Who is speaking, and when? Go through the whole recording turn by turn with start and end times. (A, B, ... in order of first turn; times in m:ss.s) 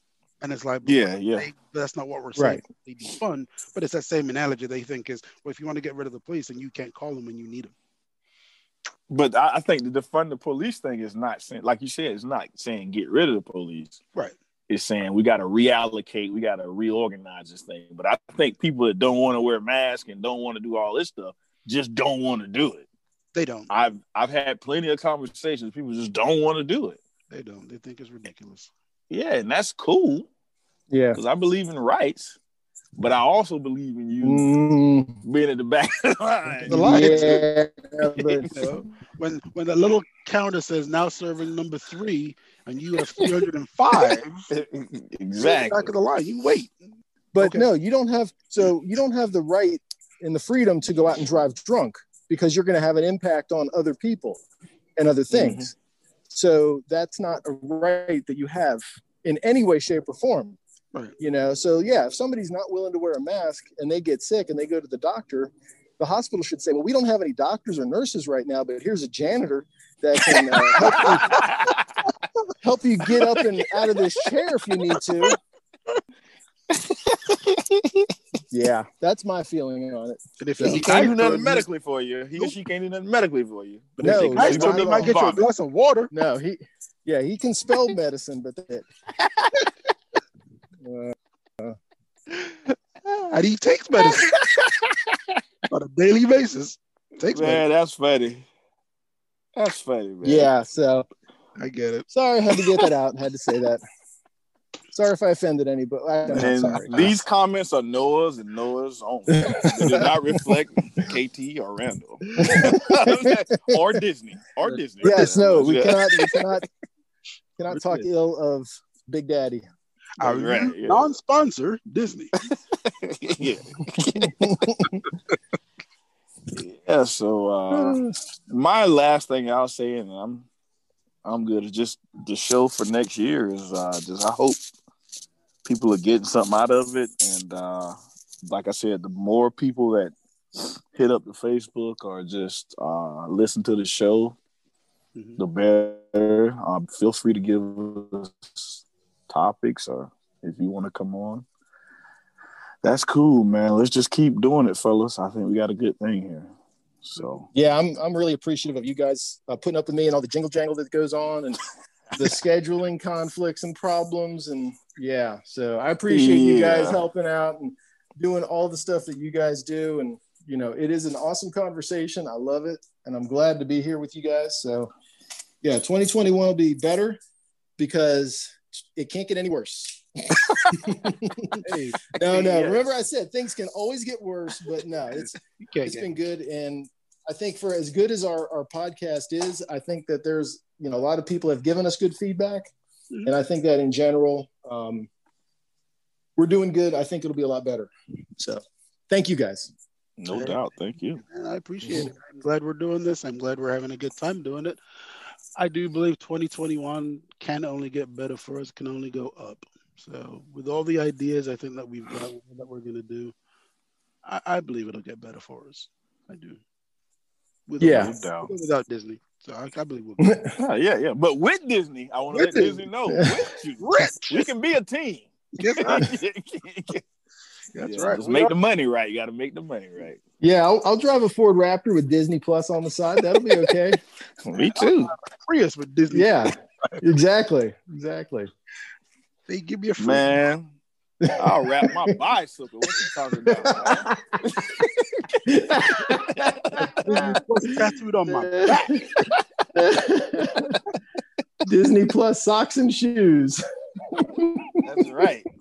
0:00.4-0:07.7 A
0:00.8-0:01.5 B
0:02.4-0:02.6 C
0:09.1-0:14.0 B
0:14.7-0:22.9 B
0:23.3-0:23.7 A
0:23.7-0:27.0 B
0:27.3-0:28.7 A
0:29.1-0:30.3 B
0:30.9-0:31.2 C
0:31.1-0:32.4 B
0:33.0-0:34.5 B
0:34.2-0:35.2 C
0:35.2-0:37.4 B
0:36.7-0:38.5 C
0:36.7-0:37.5 A
0:38.1-0:38.6 B
0:38.5-0:44.3 A
0:44.5-0:45.9 B
0:45.4-0:46.8 A
0:47.3-0:54.4 C
0:47.4-0:47.7 A
0:55.0-0:55.7 C
0:55.3-0:55.7 B
0:56.3-1:00.6 C
1:01.2-1:11.5 C
1:10.7-1:11.9 B
1:12.6-1:15.4 C
1:16.7-1:18.1 B
1:18.5-1:20.8 C
1:20.4-1:21.7 A
1:20.6-1:25.5 B
1:24.0-1:26.1 A
1:24.0-1:25.3 C
1:26.1-1:28.9 C
1:29.2-1:29.7 B
1:30.8-1:31.8 C
1:33.3-1:34.3 A
1:34.0-1:35.4 B
1:35.7-1:37.6 A
1:37.3-1:38.5 B
1:39.6-1:40.5 B
1:40.2-1:41.1 C
1:41.6-1:42.1 A
1:42.1-1:43.8 C
1:44.9-1:47.1 C
1:46.3-1:56.6 B
1:46.4-1:47.1 A
1:49.3-1:50.2 C
1:52.4-1:53.3 C
1:54.6-1:55.8 A
1:55.0-1:56.6 C
1:57.6-1:59.7 C
1:57.7-1:58.0 A
2:00.2-2:01.1 B
2:00.2-2:02.3 A
2:02.4-2:04.8 B
2:04.2-2:05.0 C
2:06.5-2:10.5 B
2:07.7-2:08.1 C
2:11.2-2:14.6 B
2:15.6-2:24.4 B
2:25.2-2:25.4 A
2:25.4-2:31.5 B
2:32.8-2:36.5 B
2:37.0-2:37.5 B
2:37.5-2:41.6 C
2:42.2-2:54.9 C
2:46.1-2:47.1 B
2:55.6-2:57.2 C
2:57.8-3:01.6 C
3:01.6-3:02.7 A
3:02.2-3:12.7 C
3:02.2-3:02.8 B
3:05.2-3:06.1 A
3:13.2-3:15.1 C
3:16.4-3:19.7 C
3:20.2-3:21.2 B
3:20.3-3:20.6 A
3:21.2-3:24.8 A
3:25.6-3:33.3 A
3:34.2-3:36.6 A
3:37.7-3:40.4 A
3:37.8-3:38.1 C
3:37.9-3:38.5 B
3:40.2-3:40.6 C
3:40.6-3:47.0 B
3:42.3-3:43.4 C
3:43.8-3:44.5 A
3:45.6-3:46.1 A
3:47.8-3:48.5 A
3:47.8-3:50.2 B
3:50.4-3:54.0 C
3:54.4-3:55.1 B
3:54.8-3:57.0 A
3:56.1-3:58.5 C
3:59.5-4:00.3 A
4:00.0-4:00.8 B
4:01.2-4:02.2 C
4:01.3-4:04.1 B
4:03.5-4:04.2 C
4:05.5-4:10.8 C
4:06.1-4:07.4 B
4:07.1-4:08.9 A
4:11.6-4:14.8 C
4:14.8-4:15.5 B